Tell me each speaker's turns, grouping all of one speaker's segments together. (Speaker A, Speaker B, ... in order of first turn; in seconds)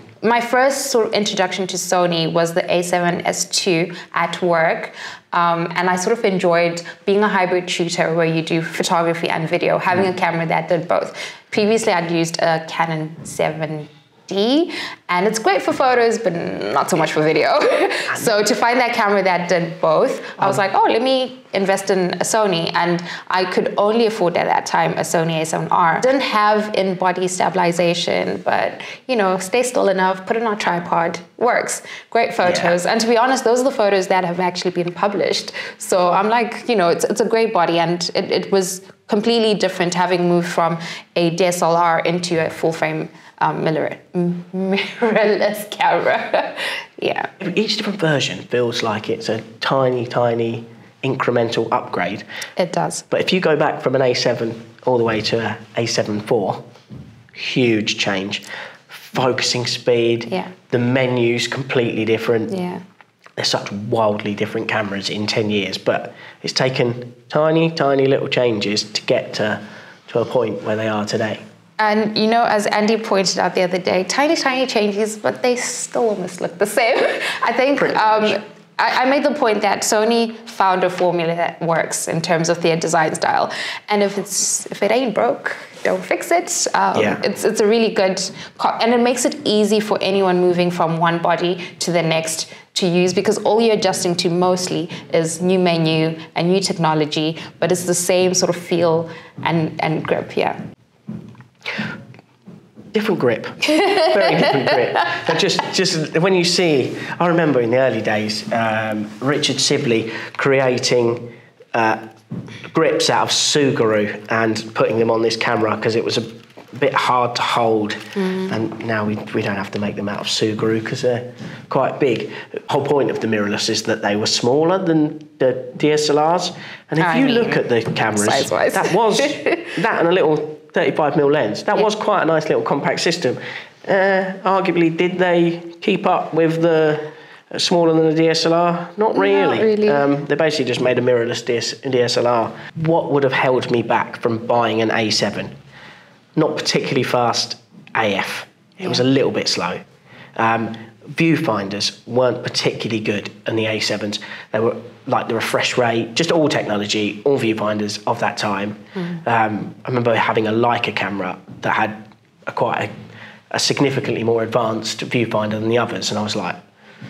Speaker A: 0.2-47.3, 52.6-53.0, 62.5-62.8, 71.8-100.5, 103.6-105.2, 118.2-118.5, 127.0-129.7, 139.1-140.1
Speaker B: 32.4-32.8, 47.4-52.2, 53.1-56.6, 57.3-62.5, 63.4-71.4, 77.8-78.4, 86.9-87.2, 102.9-112.0, 112.7-145.5, 146.3-149.8, 150.4-162.9, 163.5-166.6